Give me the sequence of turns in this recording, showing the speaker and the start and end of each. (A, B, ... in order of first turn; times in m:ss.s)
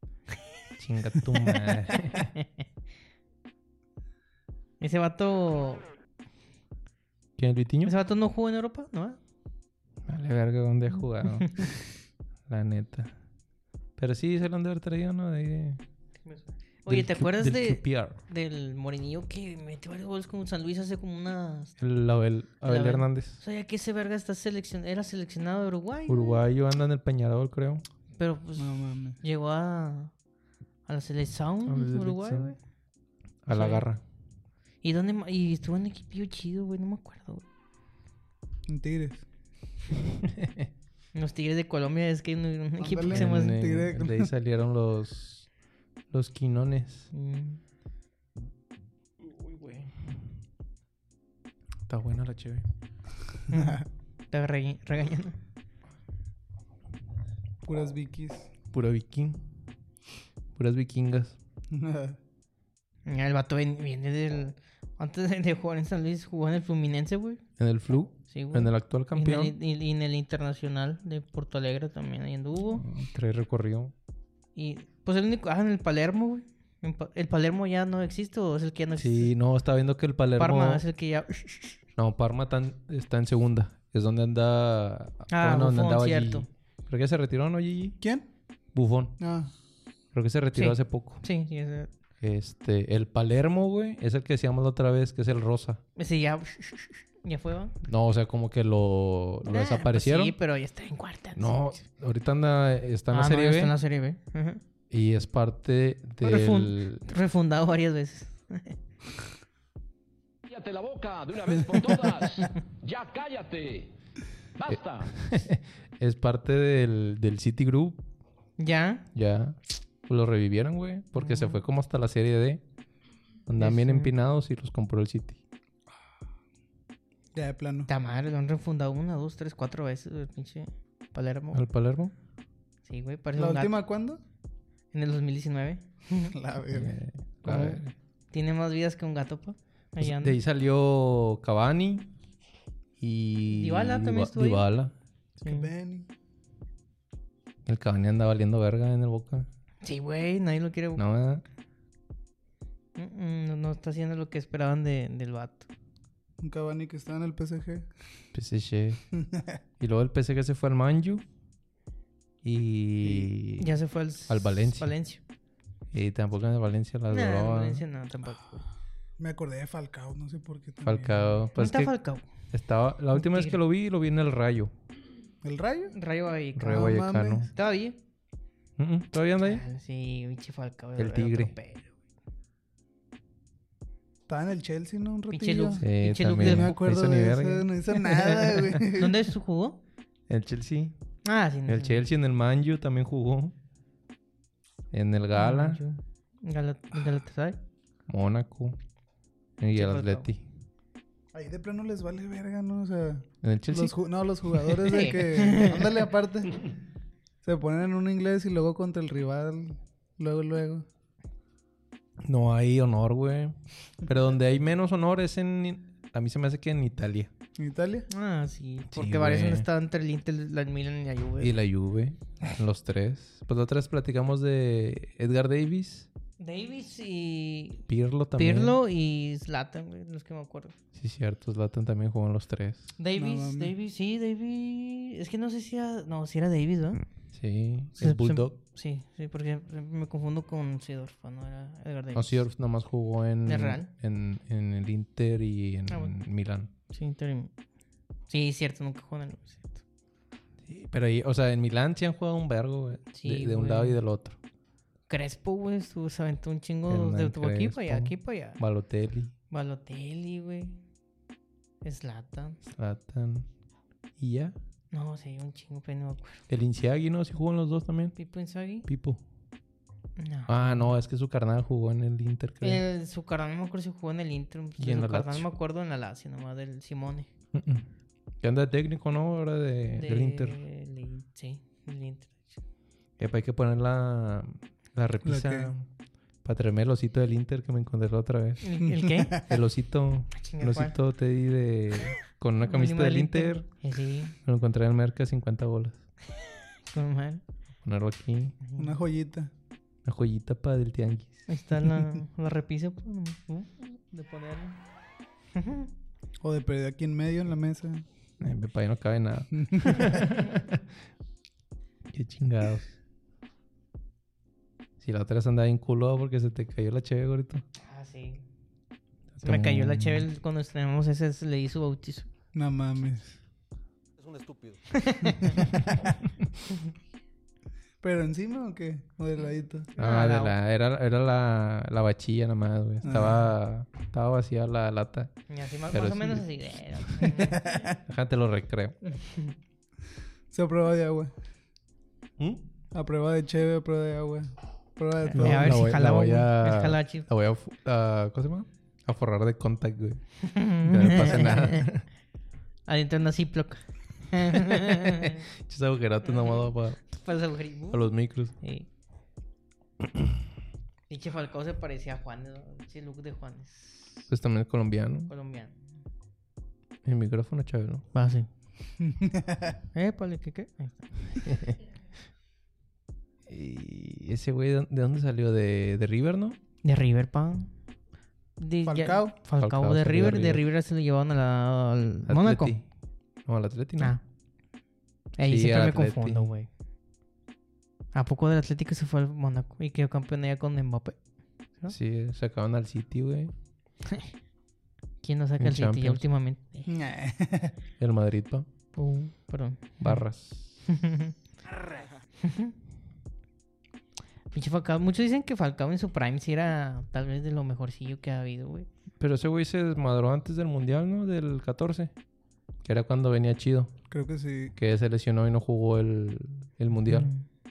0:00.8-0:02.3 A
0:04.8-0:05.9 B
0:07.4-0:07.9 A
0:07.8-0:09.2 B
0:10.0-0:11.7 A
0:11.3-0:11.7 B
0:12.5-0:13.1 A
0:14.0-0:15.8 A
0:16.2-0:21.8 B
0:16.9-0:18.2 A
0:21.8-0:23.4 A
0:22.6-0:26.4 B
0:26.1-0:27.8 A
0:28.2-0:30.1 B
0:28.6-0:29.2 C
0:30.9-0:32.6 B
0:31.6-0:32.5 A
0:33.4-0:34.0 A
0:33.5-0:33.8 B
0:34.8-0:37.4 B
0:38.7-0:39.2 C
0:40.1-0:40.7 A
0:41.1-0:43.6 B
0:42.8-0:44.3 C
0:43.1-0:45.5 A
0:46.1-0:47.1 A
0:47.1-0:47.6 B
0:49.2-0:49.9 A
0:51.9-0:52.6 A
0:53.5-0:55.4 B
0:57.6-0:58.5 C
0:58.7-0:59.4 A
1:00.5-1:01.4 A
1:01.7-1:02.2 C
1:03.0-1:07.4 B
1:07.6-1:09.5 A
1:08.3-1:12.8 B
1:12.7-1:13.9 A
1:14.6-1:19.3 B
1:19.0-1:20.8 A
1:20.4-1:21.8 B
1:22.0-1:28.0 A
1:25.3-1:26.5 B
1:28.0-1:28.2 C
1:28.7-1:29.1 A
1:29.2-1:29.5 C
1:30.1-1:31.2 A
1:30.5-1:31.9 B
1:32.2-1:35.8 A
1:36.0-1:37.7 B
1:37.8-1:40.3 A
1:39.4-1:41.8 B
1:41.4-1:43.7 A
1:43.1-1:44.6 B
1:44.9-1:47.0 A
1:46.2-1:48.8 B
1:50.5-1:53.9 D
1:54.6-1:55.1 D
1:54.7-1:58.0 A
1:58.6-1:59.1 B
1:59.1-2:02.6 A
2:01.2-2:01.6 B
2:03.5-2:05.4 A
2:03.6-2:04.1 B
2:07.3-2:07.9 C
2:07.9-2:11.6 B
2:11.5-2:12.1 A
2:12.8-2:13.8 B
2:13.4-2:14.2 C
2:14.9-2:16.3 B
2:16.2-2:16.9 C
2:16.7-2:17.9 A
2:17.4-2:17.8 B
2:18.3-2:20.4 B
2:20.0-2:22.1 A
2:23.0-2:24.9 A
2:23.5-2:24.6 B
2:25.4-2:25.7 B
2:25.4-2:26.1 C
2:27.6-2:29.5 A
2:29.8-2:31.0 B
2:31.0-2:31.4 A
2:33.0-2:35.7 B
2:36.4-2:37.9 C
2:38.3-2:39.0 A
2:39.1-2:39.6 C
2:39.8-2:41.2 A
2:42.4-2:43.7 A
2:43.6-2:45.2 B
2:44.3-2:44.9 A
2:45.9-2:47.8 A
2:47.1-2:48.6 B
2:49.2-2:51.4 C
2:50.8-2:51.9 A
2:51.6-2:52.2 B
2:52.5-2:54.7 A
2:53.1-2:53.6 B
2:55.4-2:55.9 C
2:55.9-2:58.0 B
2:56.6-2:57.5 A
2:56.7-2:57.5 C
2:58.8-2:59.6 A
2:59.4-3:01.9 B
3:01.0-3:01.5 A
3:04.3-3:09.3 C
3:05.3-3:06.7 B
3:05.8-3:07.7 A
3:08.1-3:09.8 B
3:10.3-3:11.0 A
3:11.2-3:12.0 B
3:11.7-3:13.5 A
3:14.9-3:15.8 A
3:15.3-3:17.6 B
3:18.1-3:18.8 A
3:19.6-3:20.4 A
3:19.7-3:20.3 B
3:21.3-3:26.6 C
3:23.4-3:23.9 A
3:24.7-3:26.0 B
3:27.4-3:30.8 C
3:32.2-3:37.3 A
3:37.6-3:38.1 C
3:38.1-3:41.6 B
3:38.9-3:39.7 A
3:41.4-3:46.1 A
3:46.4-3:47.8 B
3:47.9-3:48.8 A
3:48.4-3:50.8 B
3:50.9-3:52.9 A
3:53.0-3:57.0 B
3:53.2-3:53.7 C
3:57.3-3:58.5 A
3:58.0-4:02.4 B
4:02.1-4:06.7 A
4:03.4-4:03.9 B
4:05.9-4:06.1 B
4:06.9-4:07.5 B
4:08.3-4:09.8 B
4:10.6-4:14.4 A
4:13.1-4:14.0 B
4:15.1-4:18.6 B
4:16.9-4:19.3 A
4:19.5-4:20.8 B
4:21.8-4:22.6 B
4:22.6-4:23.5 A
4:24.2-4:24.6 A
4:24.9-4:26.4 B
4:26.5-4:28.2 A
4:28.2-4:28.9 B
4:28.8-4:29.2 A
4:30.2-4:31.0 B
4:30.5-4:32.8 A
4:32.6-4:37.3 B
4:34.8-4:35.4 A
4:37.5-4:37.9 A
4:38.4-4:40.6 A
4:40.0-4:42.5 B
4:43.2-4:45.8 A
4:45.2-4:45.7 C
4:46.4-4:48.6 A
4:48.6-4:49.4 B
4:48.8-4:49.4 C
4:49.4-4:53.6 A
4:50.3-4:50.9 B
4:52.6-4:54.3 B
4:54.4-4:56.0 A
4:56.8-4:57.4 B
4:57.8-4:58.6 A
4:58.6-4:58.9 B
4:58.8-4:59.5 C
5:00.0-5:01.4 A
5:01.5-5:04.8 B
5:05.5-5:05.9 B
5:06.4-5:08.0 C
5:08.4-5:10.8 A
5:09.6-5:10.1 C
5:12.1-5:13.0 A
5:15.0-5:17.6 A
5:17.8-5:18.4 B
5:19.3-5:20.2 A
5:19.4-5:22.3 B
5:22.5-5:23.4 C
5:24.9-5:25.8 B
5:25.5-5:25.8 C
5:28.0-5:29.9 C
5:30.0-5:30.6 B
5:30.0-5:35.4 A
5:33.0-5:33.5 C
5:35.5-5:37.8 B
5:35.9-5:36.4 A
5:37.0-5:37.4 A
5:37.3-5:38.0 C
5:38.0-5:39.0 A
5:39.0-5:39.5 B
5:40.5-5:41.3 C
5:42.4-5:42.6 A
5:42.9-5:45.8 C
5:45.2-5:47.3 B
5:45.3-5:50.2 A
5:50.4-5:51.9 B
5:50.8-5:52.0 A
5:52.9-5:55.4 B
5:54.7-5:57.1 A
5:56.2-5:58.9 B
5:57.9-5:58.5 A
6:00.0-6:00.4 A
6:01.1-6:04.2 B
6:04.3-6:05.3 A
6:05.3-6:05.8 B
6:07.0-6:08.0 A
6:08.1-6:08.5 B
6:09.0-6:09.7 C
6:09.9-6:11.5 B
6:11.4-6:11.8 A
6:13.5-6:16.6 A
6:16.8-6:17.7 B
6:18.6-6:22.8 B
6:18.8-6:19.4 C
6:19.6-6:20.6 A
6:22.2-6:22.8 A
6:23.4-6:24.2 A
6:25.4-6:26.7 B
6:25.4-6:26.5 A
6:28.1-6:31.2 B
6:31.9-6:33.5 A
6:35.2-6:36.9 B
6:35.6-6:36.2 A
6:36.8-6:37.7 C
6:38.0-6:38.7 A
6:38.9-6:40.2 B
6:40.0-6:40.8 A
6:40.9-6:41.3 B
6:42.4-6:42.7 B
6:44.5-6:48.9 B
6:49.2-6:52.1 A
6:52.8-6:53.9 A
6:54.1-6:54.7 C
6:54.8-6:57.3 A
6:57.0-6:57.4 B